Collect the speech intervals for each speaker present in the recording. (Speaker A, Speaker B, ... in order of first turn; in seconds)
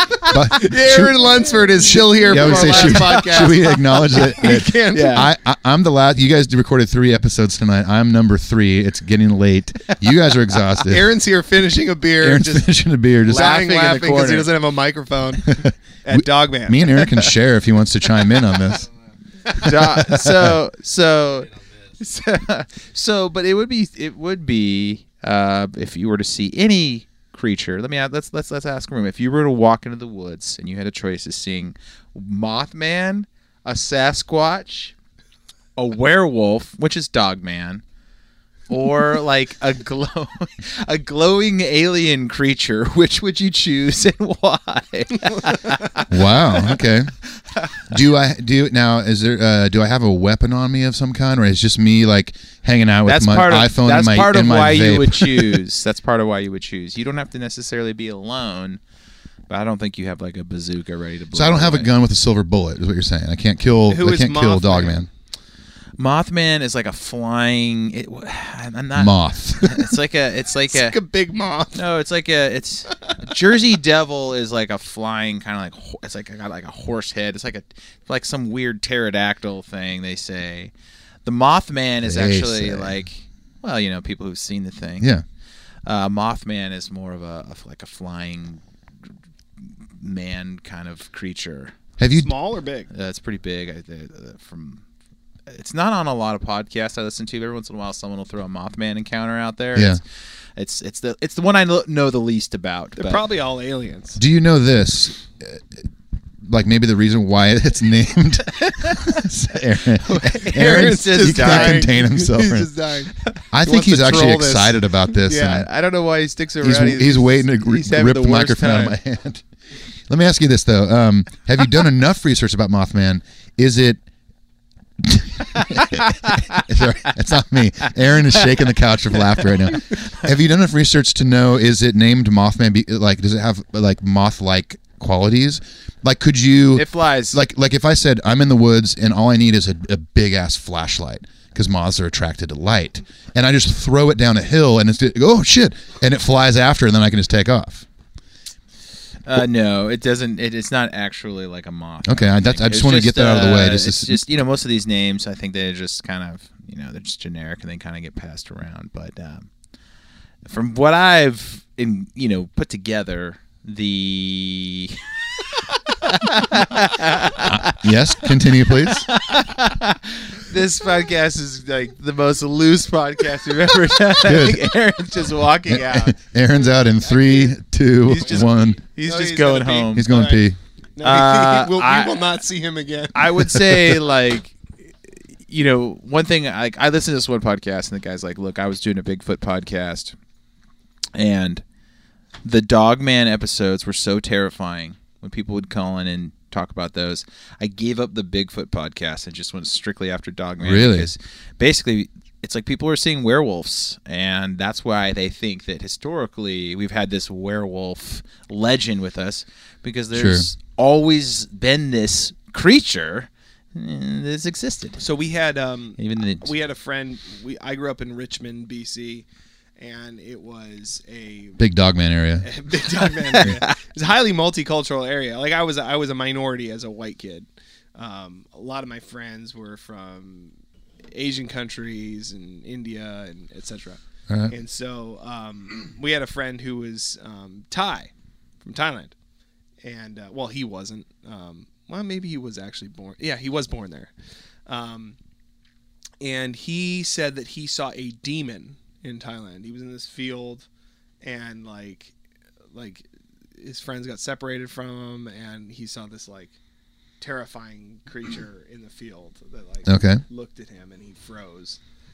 Speaker A: 0.3-11.1, 12.2-13.5, 15.5-18.9, 19.8-20.5, 46.1-47.1, 47.9-55.6, 61.3-65.1, 69.0-69.9, 82.0-83.0, 85.0-85.2, 92.0-92.3, 99.8-100.0, 104.2-105.9, 106.4-112.7, 113.5-115.7, 116.6-119.5, 120.1-124.0, 125.0-147.9, 152.1-154.2, 167.4-169.1, 174.2-174.7, 175.7-178.8, 179.9-180.6, 200.6-201.1, 210.1-210.5, 221.6-222.5, 259.9-260.2
Speaker B: 0.6-5.3, 10.8-12.7, 13.2-17.1, 63.9-65.0, 70.7-71.8, 92.1-92.9, 103.0-104.2, 110.2-115.7, 177.2-177.5, 178.1-183.8, 215.0-219.2, 219.8-221.6, 222.4-230.5, 231.1-238.1, 238.6-239.1, 239.8-244.1, 244.7-245.2, 246.2-250.7, 251.2-252.1, 252.7-253.1, 253.6-256.5, 257.2-261.8
Speaker C: 2.3-3.0, 4.9-5.3, 13.3-14.5, 19.6-34.9, 35.8-37.8, 38.7-46.7, 53.1-58.8, 59.5-61.9, 66.0-71.0, 71.7-80.7, 81.2-85.1, 85.8-88.6, 89.6-91.8, 92.9-94.8, 95.5-100.0, 100.6-103.2, 108.5-109.1, 110.0-111.9, 115.4-119.0, 136.7-137.4, 149.2-159.5, 160.4-176.2, 178.1-180.1, 181.0-182.3, 183.2-190.2, 191.2-191.6, 192.4-215.0, 216.0-216.5, 223.0-223.8